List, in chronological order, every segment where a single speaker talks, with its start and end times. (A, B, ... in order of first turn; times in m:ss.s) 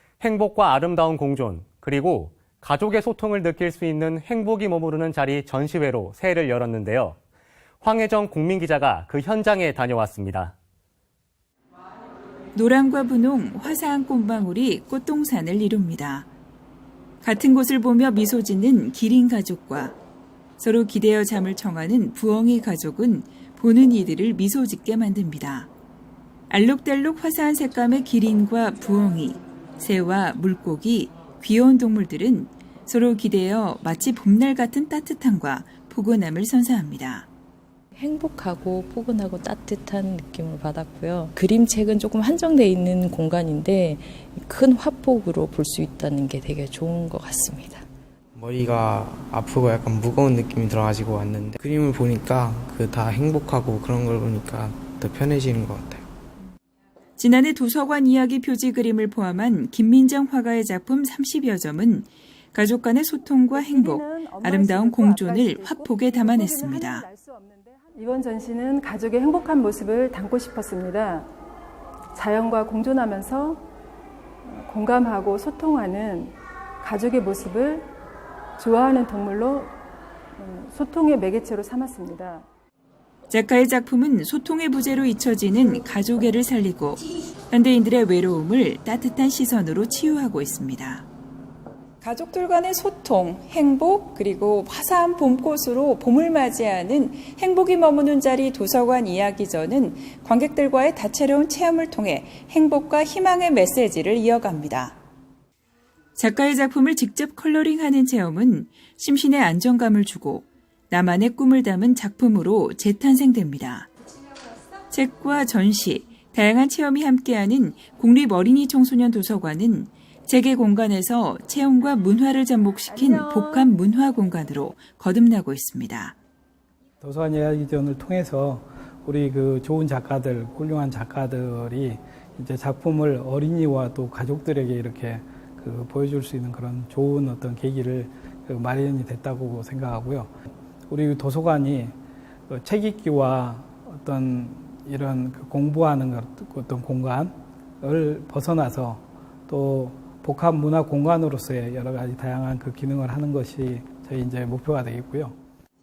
0:00.2-0:07.1 A
0:07.8-0:10.5 A
0:12.5-0:16.3 B
0:17.2-0:20.0 B
0:20.6-0:25.7 B
0:26.5-0:37.3 B
0:37.9-0:47.8 C
0:48.3-0:56.1 D
0:57.2-1:07.0 B
1:03.5-1:11.3 E
1:12.1-1:13.6 E
1:14.4-1:17.9 E
1:18.6-1:19.7 E
1:20.4-1:22.4 E
1:23.3-1:31.0 B
1:32.0-1:45.0 B
1:46.2-1:53.9 B
1:54.9-2:06.1 B
2:02.9-2:03.7 E
2:07.0-2:20.3 F
2:20.9-2:21.9 F
2:22.5-2:35.4 F